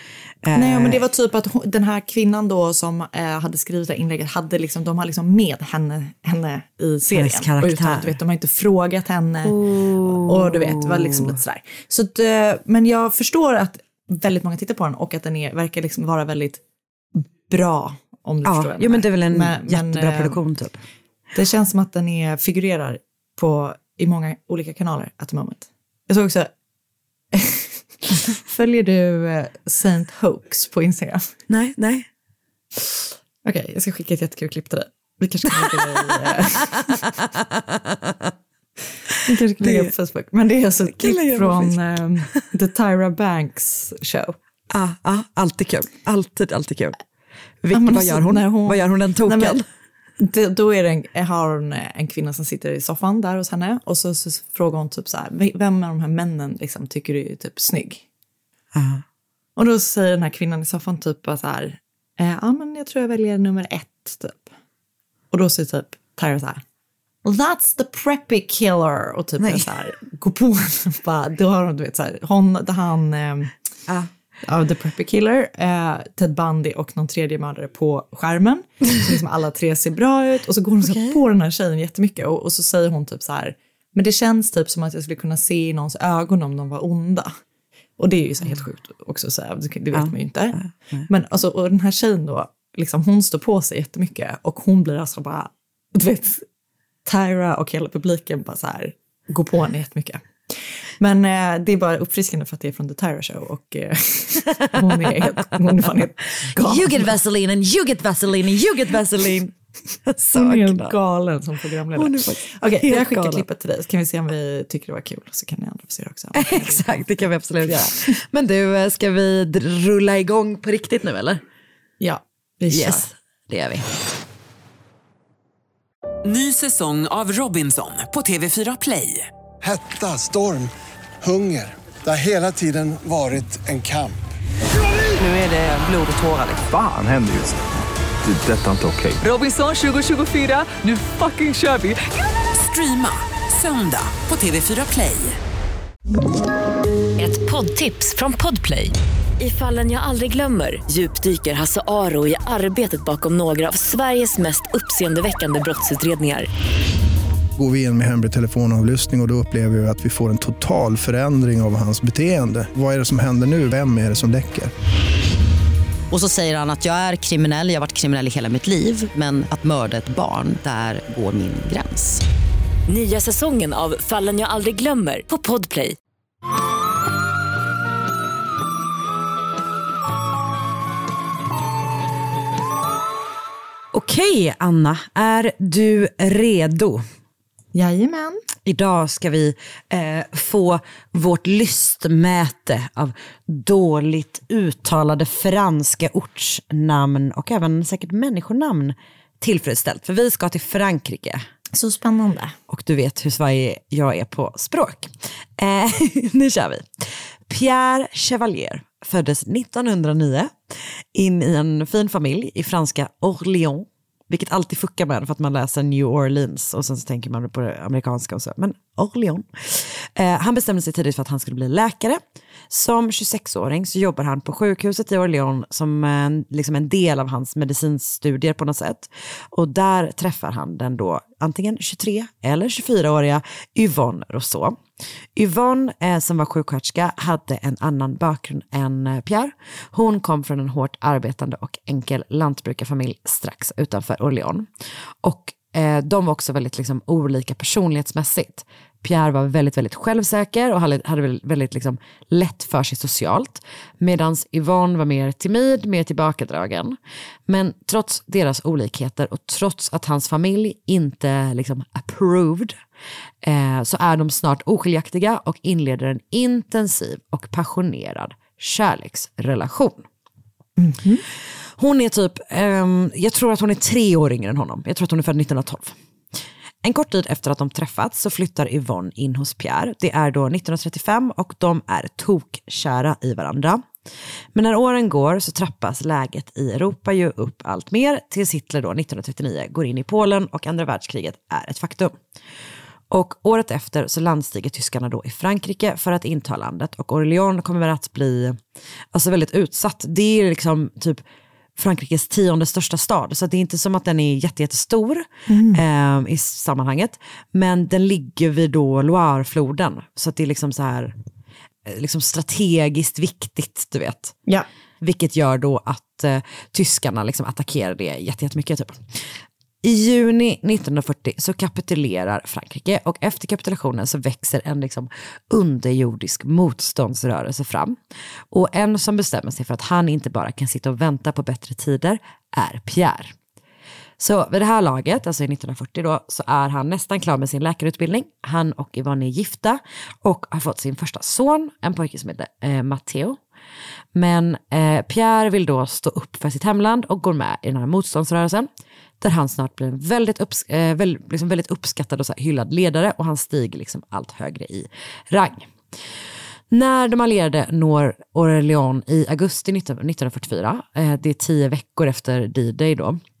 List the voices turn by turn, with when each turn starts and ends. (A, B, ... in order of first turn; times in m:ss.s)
0:00.4-0:01.0 A
0:00.5-0:16.6 B
0:07.1-0:08.2 A
0:09.4-0:11.4 A
0:17.1-0:20.4 B
0:18.4-0:20.8 A
0:21.3-0:26.5 B
0:27.3-0:31.3 B
0:31.5-0:32.1 A
0:33.4-0:37.0 B
0:35.5-0:38.3 A
0:39.2-0:44.3 B
0:39.6-0:39.9 A
0:41.0-0:41.8 A
0:44.7-0:47.0 A
0:47.6-0:49.6 A
0:47.7-0:49.6 B
0:50.2-0:58.0 B
0:58.7-0:59.0 A
0:59.6-1:04.5 B
1:05.3-1:06.6 B
1:07.2-1:13.5 B
1:09.4-1:09.6 A
1:14.4-1:27.3 B
1:20.8-1:21.2 A
1:28.0-1:36.4 B
1:29.9-1:31.1 A
1:37.0-1:47.1 B
1:46.5-1:50.9 A
1:50.3-1:58.2 B
1:51.9-1:53.4 A
1:56.3-2:01.4 A
2:02.0-2:03.1 B
2:02.7-2:03.8 A
2:06.2-2:09.3 C
2:09.6-2:14.2 D
2:15.2-2:16.7 C
2:16.6-2:17.6 E
2:18.2-2:19.2 E
2:19.2-2:22.0 C
2:22.5-2:25.4 C
2:27.2-2:36.5 F
2:37.6-2:44.7 G
2:46.1-2:52.2 H
2:52.9-2:56.0 F
3:03.9-3:07.0 A
3:07.7-3:08.4 B
3:08.6-3:21.4 A
3:21.7-3:22.5 B
3:22.7-3:30.5 A
3:31.1-3:54.8 A
3:55.4-4:04.7 A
4:05.2-4:17.0 A
4:17.5-4:22.8 A
4:23.4-4:30.0 A
4:30.8-4:31.2 B
4:31.8-4:36.0 A
4:36.8-4:43.8 A
4:44.5-4:52.2 A
4:53.1-4:58.6 A
4:59.1-5:01.2 A
5:01.8-5:11.1 A
5:05.5-5:05.8 B
5:11.8-5:14.3 A
5:15.0-5:19.0 A
5:19.8-5:28.0 A
5:28.5-5:33.3 A
5:34.2-5:43.4 A
5:44.1-5:48.7 A
5:49.2-5:55.7 A
5:56.7-6:03.2 A